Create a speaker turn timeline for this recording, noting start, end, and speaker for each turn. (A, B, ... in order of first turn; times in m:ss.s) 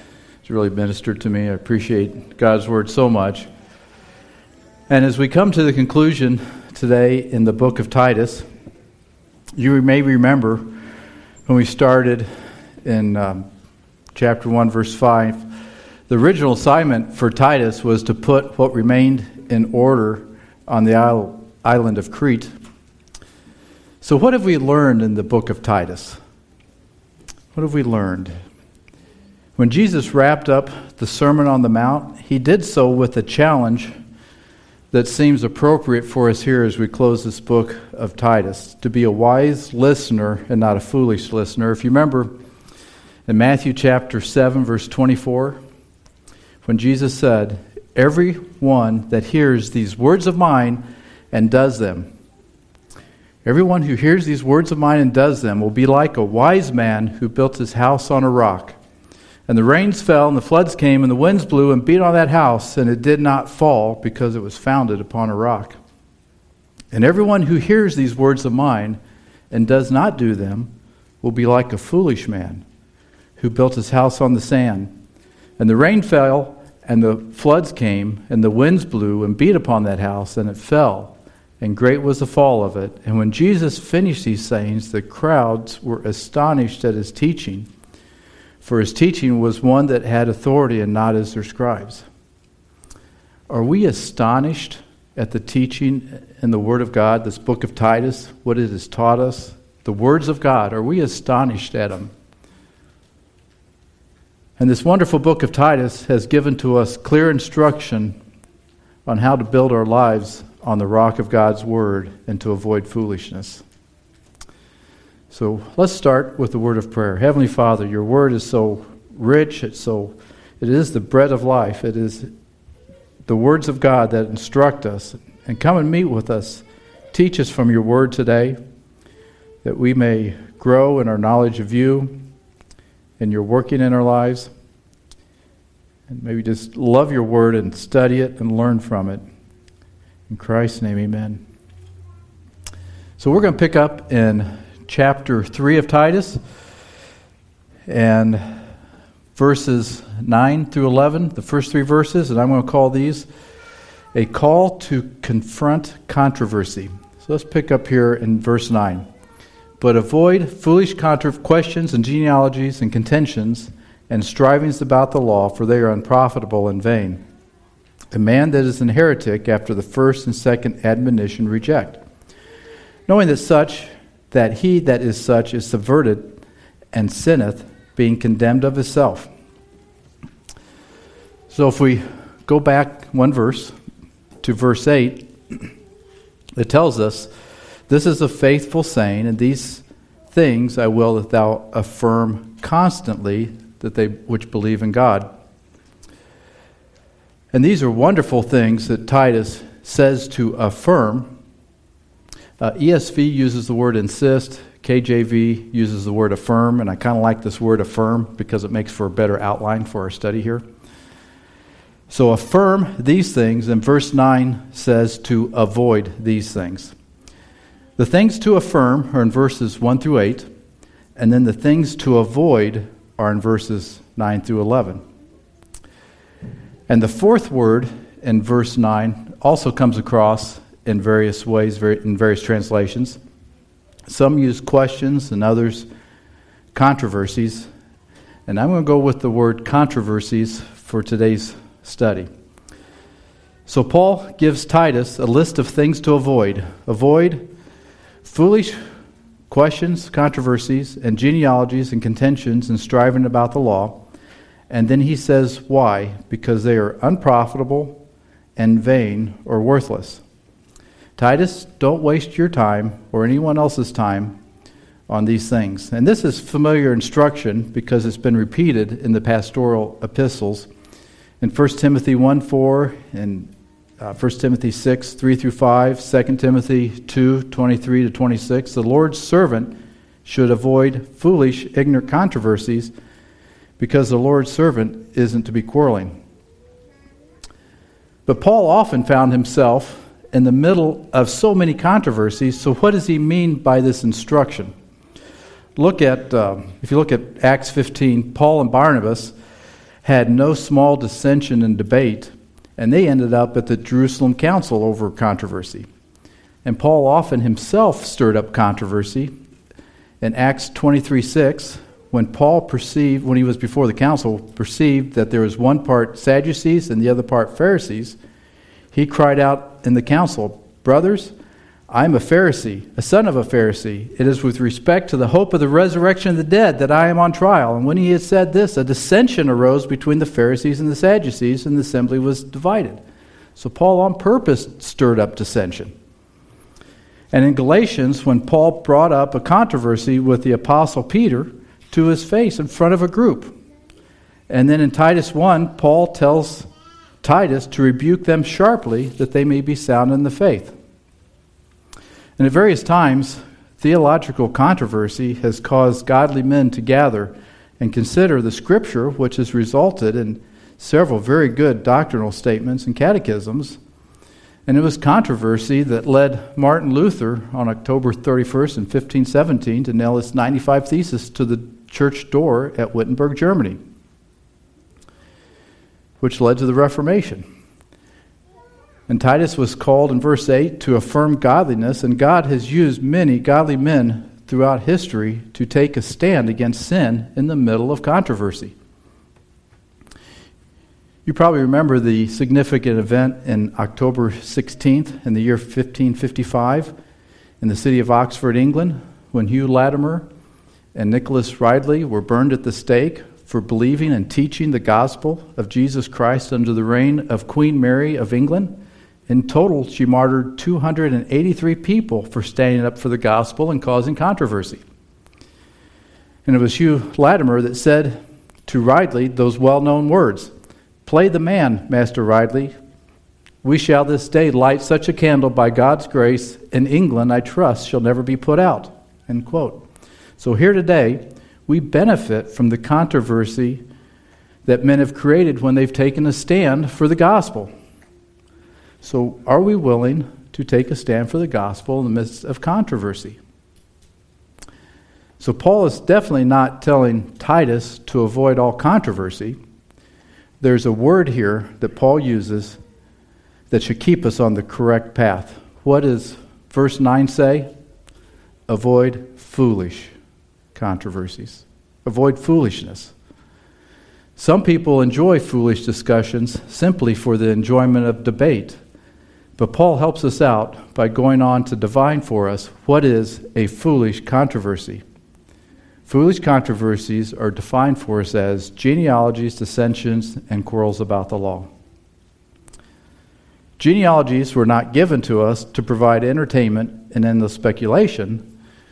0:00.4-0:03.5 A
0:04.9-0:08.4 A
0:09.6-0:10.7 A
0:11.5-0:12.3 A
0:12.8-0:13.5 A
0:14.1-0:15.5 A
0:16.1-0:22.5 A
0:24.0-0:26.2 A
0:27.5-0:28.3 A
0:29.6-0:33.9 A
0:34.9-0:42.3 A
0:43.3-0:45.6 A
0:46.6-0:52.1 A
0:53.4-0:58.8 A
0:59.5-1:05.8 A
1:06.9-1:09.0 A
1:09.5-1:10.7 A
1:11.2-1:12.6 A
1:13.4-1:14.9 A
1:15.6-1:27.7 A
1:28.6-1:32.0 A
1:33.5-1:42.1 A
1:44.6-1:48.2 A
1:49.0-1:53.6 A
1:55.3-2:02.3 A
2:03.3-2:08.6 A
2:09.6-2:12.2 A
2:13.2-2:14.5 A
2:16.1-2:19.2 A
2:20.3-2:21.4 A
2:23.2-2:26.4 A
2:27.9-2:28.4 A
2:29.4-2:33.3 A
2:34.1-2:39.0 A
2:39.8-2:47.2 A
2:48.1-2:52.0 A
2:53.1-2:56.4 A
2:56.9-2:59.3 A
3:01.5-3:03.7 A
3:04.4-3:05.3 A
3:06.6-3:07.3 A
3:07.9-3:15.3 A
3:17.5-3:21.3 A
3:22.6-3:30.6 A
3:32.1-3:36.9 A
3:38.0-3:40.5 A
3:41.2-3:45.0 A
3:46.9-3:53.2 A
3:54.1-3:55.9 A
3:56.7-3:57.7 A
3:58.5-4:02.3 A
4:03.7-4:07.4 A
4:08.2-4:08.8 A
4:09.5-4:14.0 A
4:14.7-4:18.0 A
4:18.6-4:20.2 A
4:21.2-4:24.4 A
4:25.1-4:30.7 A
4:31.4-4:42.9 A
4:43.8-4:46.2 A
4:48.2-4:54.7 A
4:55.8-4:59.3 A
5:00.0-5:05.9 A
5:06.6-5:09.3 A
5:10.2-5:18.2 A
5:18.9-5:21.3 A
5:21.9-5:33.0 A
5:33.6-5:35.9 A
5:37.3-5:43.5 A
5:44.5-5:46.7 A
5:47.2-5:50.7 A
5:52.4-6:03.8 A
6:04.7-6:13.8 A
6:16.2-6:17.4 A
6:19.1-6:28.7 A
6:31.2-6:36.9 A
6:37.6-6:40.2 A
6:40.9-6:48.8 A
6:49.3-6:54.8 A
6:56.4-7:00.5 A
7:01.0-7:02.8 A
7:03.6-7:09.8 A
7:10.4-7:13.8 A
7:14.6-7:17.7 A
7:19.0-7:23.4 A
7:25.4-7:29.6 A
7:30.6-7:32.8 A
7:33.7-7:37.7 A
7:38.7-7:40.1 A
7:40.8-7:43.1 A
7:44.4-7:48.8 A
7:49.6-7:55.0 A
7:56.1-8:01.7 A
8:03.8-8:08.4 A